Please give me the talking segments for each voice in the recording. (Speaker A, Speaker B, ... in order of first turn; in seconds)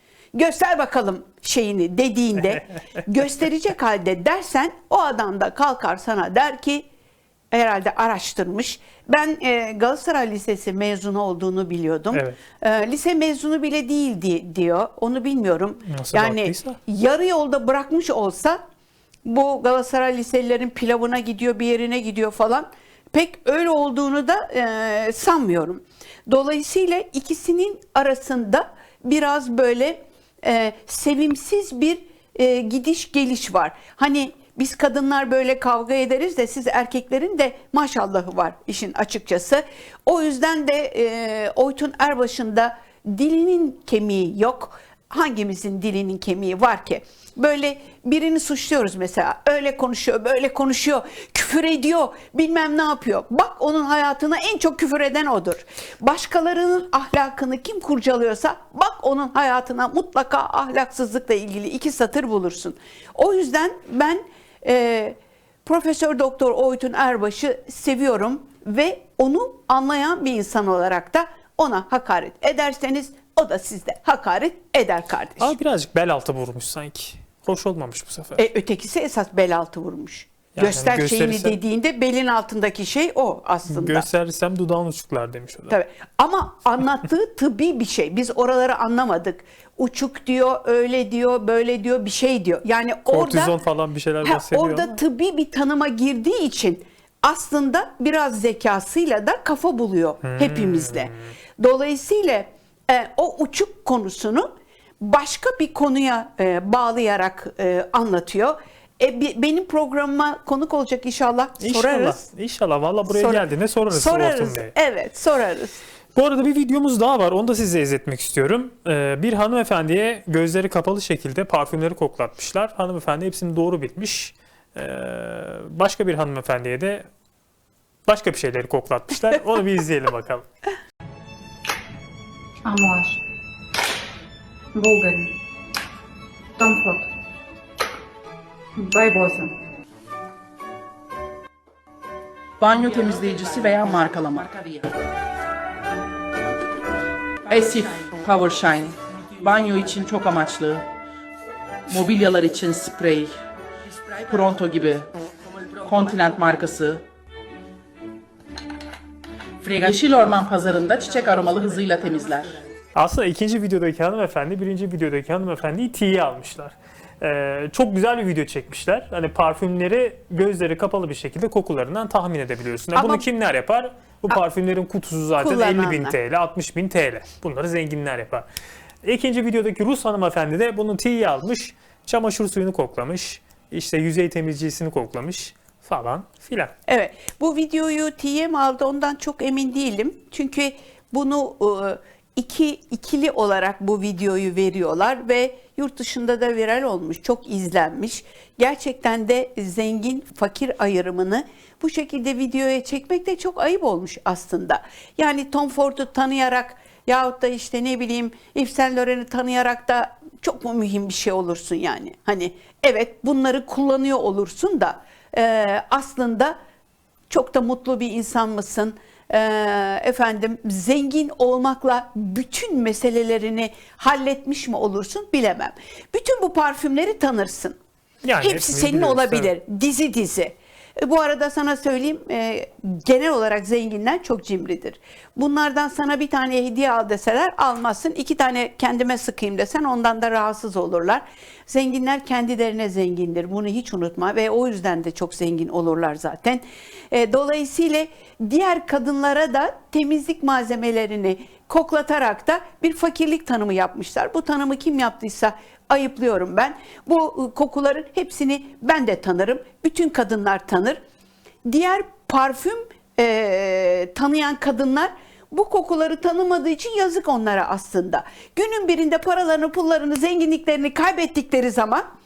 Speaker A: 0.3-6.8, 7.5-18.6, 19.2-75.5, 78.4-84.1, 85.7-93.5, 94.2-112.2, 113.1-115.8, 172.9-173.2, 175.4-176.2, 186.9-216.6, 217.3-227.8, 228.4-261.0, 261.6-272.1
Speaker B: 12.1-12.4, 15.9-16.8, 75.4-78.4, 80.6-81.6, 83.7-85.8, 93.1-95.0, 100.2-101.3, 111.6-114.7, 116.2-127.1, 128.1-130.5, 162.9-178.4, 179.0-186.7, 228.2-229.5
Speaker C: 132.6-133.2, 134.7-135.4, 136.6-137.1, 138.8-139.6
Speaker D: 142.6-144.9, 147.5-150.9, 151.9-153.4, 154.2-155.1, 155.8-157.1, 159.6-162.6